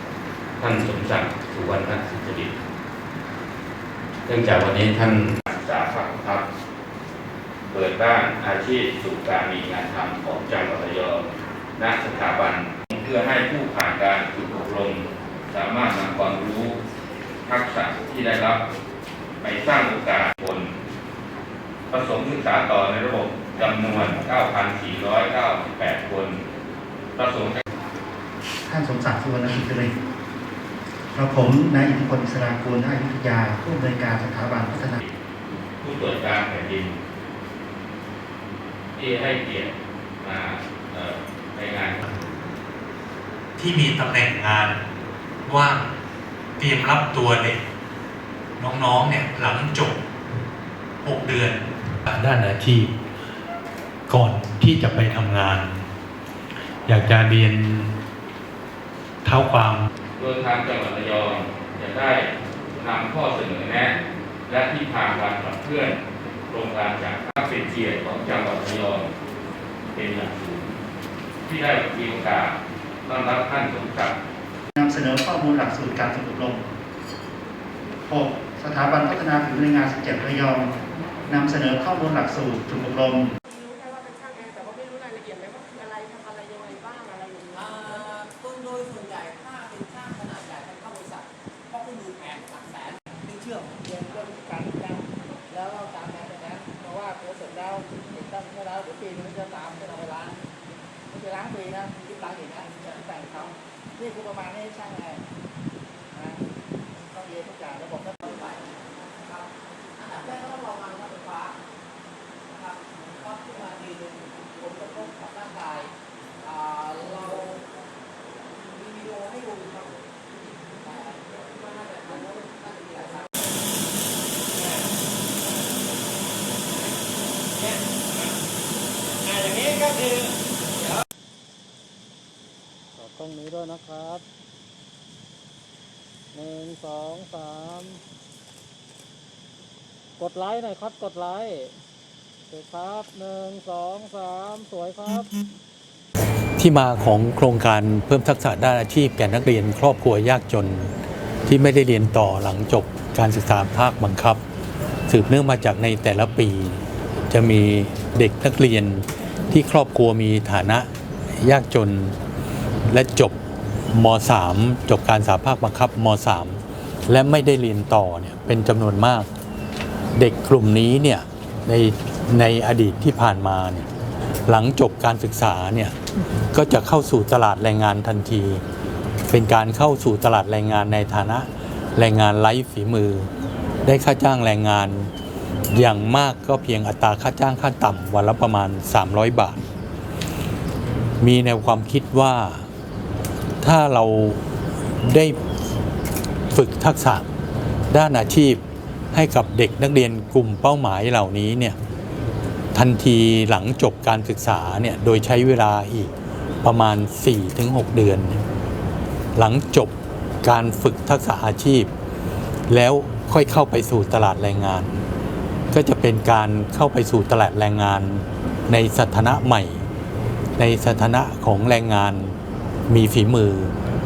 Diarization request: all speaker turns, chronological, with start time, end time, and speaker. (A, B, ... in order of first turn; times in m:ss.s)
0:00.6-0:02.5 A
0:04.2-0:06.4 A
0:07.7-0:11.2 A
0:11.8-0:16.8 A
0:17.4-0:18.6 A
0:19.4-0:20.7 A
0:21.9-0:26.4 A
0:27.2-0:27.6 A
0:28.6-0:29.9 B
0:31.1-0:35.0 B
0:35.8-0:37.0 A
0:39.0-0:42.1 A
0:43.6-0:44.8 C
0:45.4-0:45.8 C
0:46.6-0:47.6 C
0:48.6-0:50.0 C
0:51.0-0:52.9 C
0:54.1-0:55.9 C
0:56.8-0:58.0 C
0:59.2-0:59.9 C
1:00.2-1:03.9 A
1:04.5-1:09.1 A
1:09.9-1:10.7 A
1:11.4-1:14.1 A
1:14.8-1:16.6 B
1:18.1-1:20.7 B
1:21.2-1:23.3 B
1:23.5-1:28.1 D
1:27.6-1:33.8 E
1:33.9-1:40.4 D
1:41.1-1:45.2 D
1:46.1-1:46.5 D
1:47.1-1:48.3 D
1:48.3-1:48.6 E
1:50.0-1:51.5 E
1:52.6-1:55.9 E
1:56.4-1:57.6 E
1:58.8-2:00.0 E
2:00.8-2:03.3 E
2:13.0-2:14.2 F
2:16.3-2:18.0 F
2:20.2-2:21.8 F
2:22.5-2:25.3 F
2:26.6-2:30.9 C
2:31.5-2:34.4 C
2:35.1-2:42.2 C
2:42.9-2:43.4 C
2:43.9-2:49.3 C
2:50.2-2:53.9 C
2:54.5-2:55.9 C
2:56.5-2:58.6 C
2:59.3-3:03.3 C
3:03.8-3:05.1 C
3:05.7-3:09.6 C
3:11.2-3:12.7 C
3:13.6-3:14.4 C
3:15.0-3:15.4 C
3:16.5-3:17.3 C
3:17.9-3:18.6 C
3:19.1-3:21.8 C
3:22.7-3:26.1 C
3:26.6-3:28.4 C
3:29.4-3:31.9 C
3:32.7-3:35.0 C
3:35.7-3:39.8 C
3:40.6-3:42.4 C
3:42.9-3:43.7 C